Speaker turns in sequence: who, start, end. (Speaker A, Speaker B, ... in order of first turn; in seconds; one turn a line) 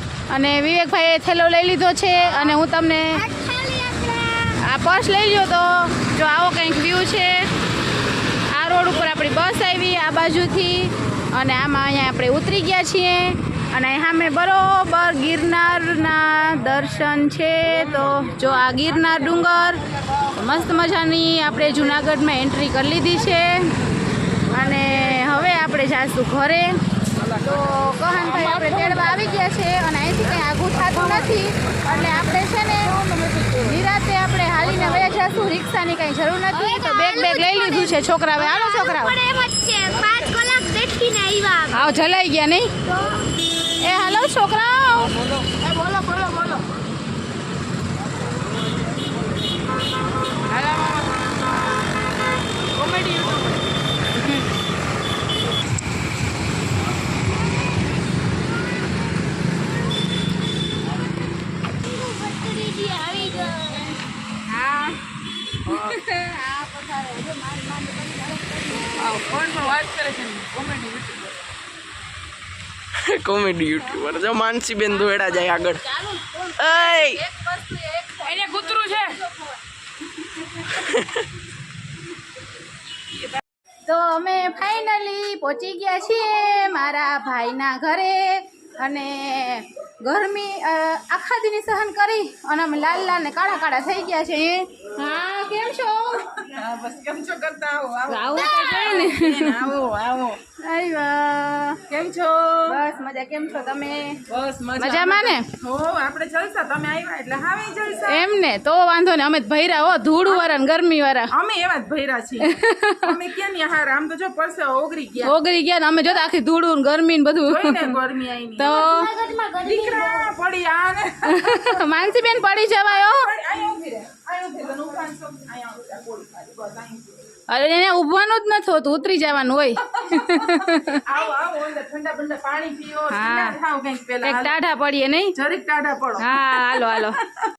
Speaker A: 0.3-3.2
Speaker B: 2.2-2.5
Speaker B: 3.1-4.6
Speaker A: 4.6-7.5
Speaker A: 8.5-23.7
Speaker A: 24.5-26.8
Speaker A: 27.4-33.0
Speaker C: 28.4-29.0
Speaker C: 31.0-31.2
Speaker C: 31.9-32.2
Speaker C: 33.1-33.5
Speaker A: 33.5-39.1
Speaker B: 36.5-41.9
Speaker A: 41.7-42.7
Speaker B: 42.8-43.2
Speaker A: 43.8-45.2
Speaker C: 45.5-46.7
Speaker C: 50.5-51.2
Speaker C: 52.7-53.6
Speaker B: 62.0-63.8
Speaker A: 62.0-63.8
Speaker A: 64.5-65.0
Speaker A: 65.6-69.4
Speaker C: 69.0-71.4
Speaker D: 73.0-75.8
Speaker A: 73.8-74.2
Speaker A: 74.9-79.5
Speaker D: 76.6-77.2
Speaker C: 78.2-79.1
Speaker D: 80.9-81.2
Speaker A: 83.8-96.4
Speaker C: 96.4-100.4
Speaker A: 98.1-99.7
Speaker B: 98.4-98.8
Speaker A: 100.5-101.8
Speaker C: 101.9-102.8
Speaker A: 102.7-104.2
Speaker C: 104.3-108.3
Speaker A: 104.8-105.5
Speaker A: 108.1-111.3
Speaker C: 111.3-115.3
Speaker A: 112.4-113.2
Speaker A: 115.2-118.0
Speaker C: 117.5-119.1
Speaker A: 118.5-119.1
Speaker B: 118.6-120.3
Speaker C: 119.6-121.8
Speaker A: 121.2-123.3
Speaker C: 122.9-127.3
Speaker A: 127.5-131.0
Speaker C: 130.1-134.5
Speaker A: 133.1-133.6
Speaker A: 134.2-135.4
Speaker C: 135.3-137.5
Speaker A: 136.2-137.2